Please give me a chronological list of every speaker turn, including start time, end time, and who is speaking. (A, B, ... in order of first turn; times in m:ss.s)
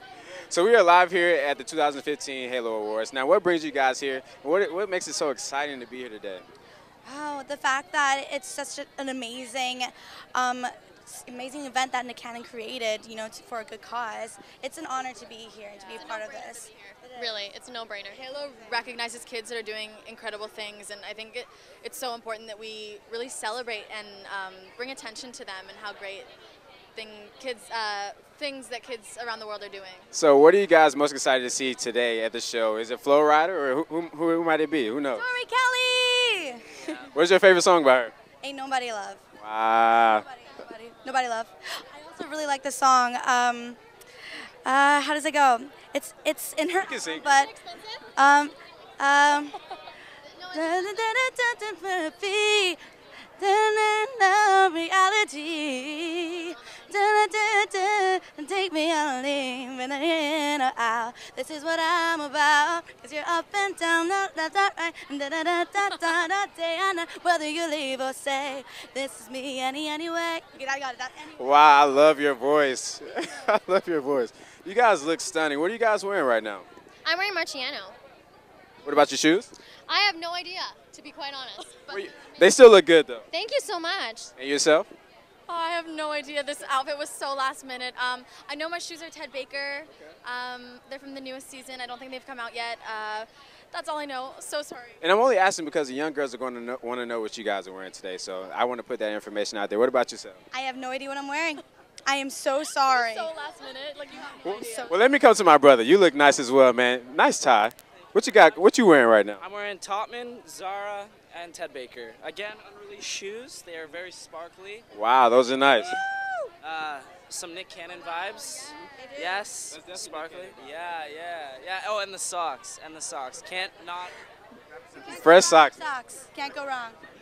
0:00.4-0:06.4 A
0:07.0-0:17.2 B
0:15.8-0:26.3 C
0:26.9-0:30.1 C
0:30.1-0:35.3 A
0:35.1-0:37.1 B
0:37.0-0:38.1 A
0:38.4-0:39.2 B
0:39.4-0:40.3 A
0:40.1-0:43.8 B
0:44.6-0:47.6 B
0:46.8-0:47.4 A
0:47.4-0:48.0 C
0:48.2-0:49.6 B
0:50.4-0:50.7 C
0:50.5-0:52.8 B
0:53.4-1:11.7 B
0:56.5-0:56.8 C
1:11.4-1:16.7 A
1:17.0-1:18.0 C
1:18.8-1:19.5 A
1:19.9-1:22.0 C
1:21.9-1:23.2 A
1:23.3-1:24.3 C
1:24.4-1:24.9 A
1:25.5-1:35.0 C
1:35.0-1:40.4 A
1:40.5-1:43.3 B
1:42.8-1:45.0 C
1:44.4-1:49.4 A
1:44.5-1:44.9 B
1:48.0-1:48.6 D
1:49.5-1:54.8 D
1:54.9-1:56.0 A
1:56.6-2:04.1 D
1:59.0-1:59.4 B
1:59.7-2:00.7 A
2:05.0-2:07.0 B
2:05.0-2:05.8 A